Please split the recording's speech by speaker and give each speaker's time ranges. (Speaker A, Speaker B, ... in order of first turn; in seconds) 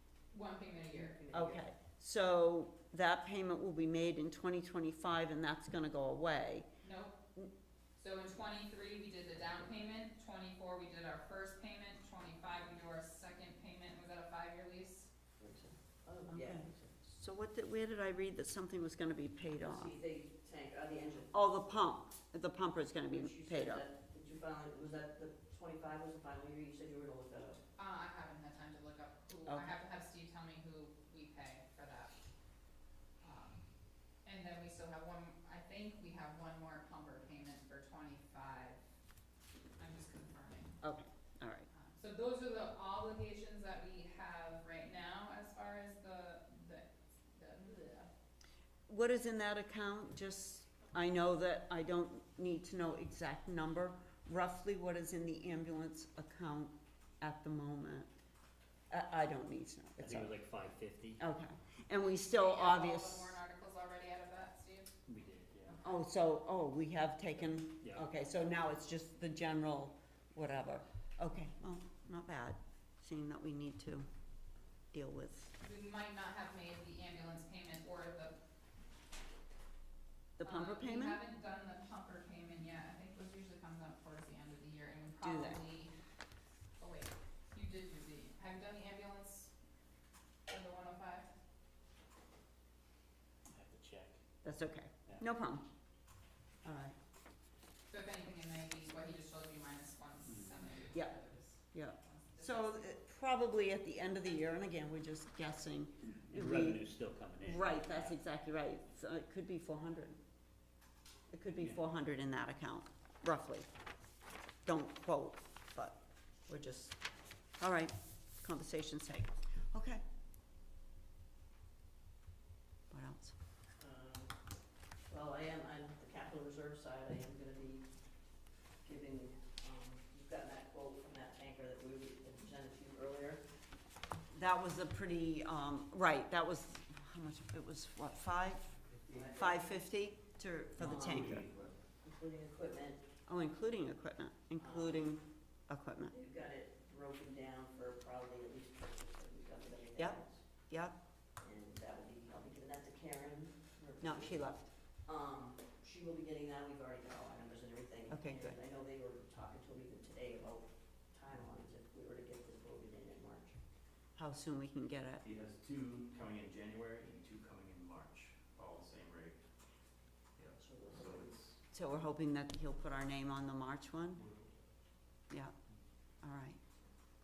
Speaker A: 0.3-1.2, 6.8-7.2, 8.0-15.1, 27.8-32.1, 33.2-33.6, 34.2-38.8, 39.8-40.8, 41.7-48.1, 62.0-64.9, 65.7-65.9, 75.6-78.4, 80.4-85.9, 86.8-89.5, 90.5-91.3, 97.9-102.8
Speaker B: 0.9-1.6, 15.4-17.0, 19.6-21.9, 23.1-27.6, 123.8-124.3, 125.1-127.9, 128.8-133.4, 139.1-139.7, 140.8-141.4, 142.0-143.0, 144.6-145.1, 146.1-150.4, 151.4-163.6, 170.6-171.5
Speaker C: 1.3-6.7, 16.3-19.9, 21.3-23.8, 29.4-29.7, 40.8-41.7, 48.9-58.1, 58.9-60.3, 61.2-63.3, 65.8-74.1, 74.9-75.5, 80.4-81.2, 85.2-85.6, 94.4-95.6, 96.6-96.9, 101.7-110.2, 111.3-113.7, 114.6-117.0, 117.6-120.0, 122.9-123.3, 134.3-138.8, 139.3-141.4, 143.3-146.1, 150.0-150.9, 154.0-154.6, 158.1-158.6, 164.2-165.2, 171.7-174.2, 176.2-176.6
Speaker D: 60.0-61.2, 65.1-65.8, 67.8-68.1, 93.5-94.2, 106.0-108.2
Speaker E: 139.0-139.3, 140.8-141.8, 165.2-169.4, 170.3-171.5, 174.2-174.5